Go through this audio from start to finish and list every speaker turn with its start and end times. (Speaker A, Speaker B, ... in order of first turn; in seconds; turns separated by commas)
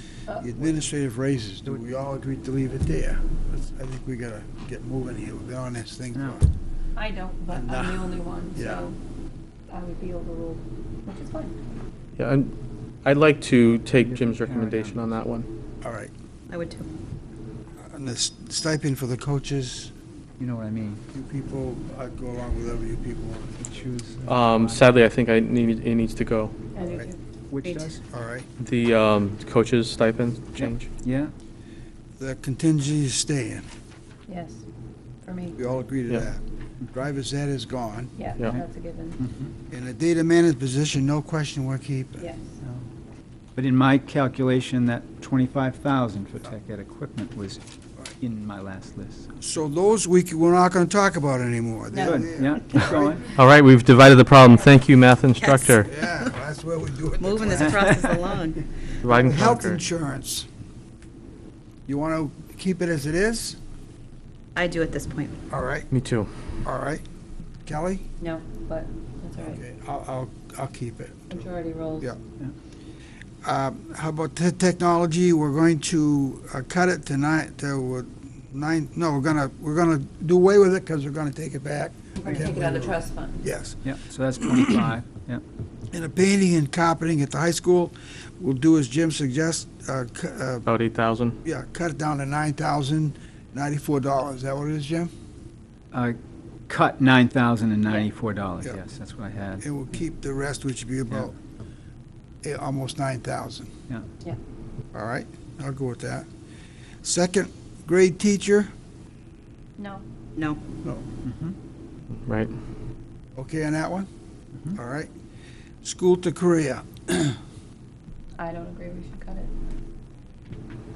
Speaker A: 0.4-6.5, Speaker B: 6.1-6.4, Speaker C: 7.0-9.0, Speaker A: 7.5-8.8, Speaker C: 9.7-11.6, Speaker D: 12.2-12.5, Speaker D: 13.0-15.5, Speaker B: 13.8-15.0, Speaker A: 15.8-16.1, Speaker E: 16.5-16.9, Speaker A: 17.9-19.9, Speaker B: 20.4-21.0, Speaker A: 21.1-23.6, Speaker B: 23.6-24.8, Speaker D: 24.3-26.6, Speaker C: 26.8-27.2, Speaker A: 26.8-27.1, Speaker B: 27.5-28.0, Speaker E: 27.6-27.9, Speaker A: 28.0-28.5, Speaker D: 28.6-30.9, Speaker B: 30.6-31.3, Speaker A: 32.2-33.7, Speaker C: 34.3-34.6, Speaker C: 35.2-35.8, Speaker A: 35.6-38.1, Speaker C: 38.2-39.2, Speaker B: 39.2-39.5, Speaker A: 39.7-42.3, Speaker C: 42.2-42.5, Speaker B: 43.6-47.6, Speaker B: 48.2-49.3, Speaker A: 49.4-53.2, Speaker C: 51.9-52.2, Speaker B: 52.0-53.2, Speaker D: 53.4-55.9, Speaker E: 55.4-56.3, Speaker A: 55.9-58.0, Speaker E: 57.2-58.6, Speaker D: 59.0-59.8, Speaker A: 59.1-60.5, Speaker A: 61.9-63.6, Speaker E: 64.6-65.4, Speaker A: 65.5-65.9, Speaker D: 65.9-66.3, Speaker A: 66.7-67.0, Speaker A: 67.7-68.0, Speaker C: 68.2-69.6, Speaker A: 69.4-71.5, Speaker C: 71.3-72.1, Speaker A: 73.4-83.8, Speaker C: 82.2-83.4, Speaker B: 83.8-85.4, Speaker A: 85.9-90.7, Speaker D: 90.7-91.4, Speaker A: 91.4-95.1, Speaker B: 95.9-99.7, Speaker A: 99.6-101.3, Speaker A: 102.4-103.7, Speaker A: 104.9-106.3, Speaker A: 107.0-108.7, Speaker C: 109.8-110.0, Speaker E: 110.4-110.6, Speaker B: 111.2-111.6, Speaker D: 112.3-112.5, Speaker A: 113.4-114.1, Speaker A: 114.7-115.1, Speaker A: 115.8-117.4, Speaker C: 118.4-119.5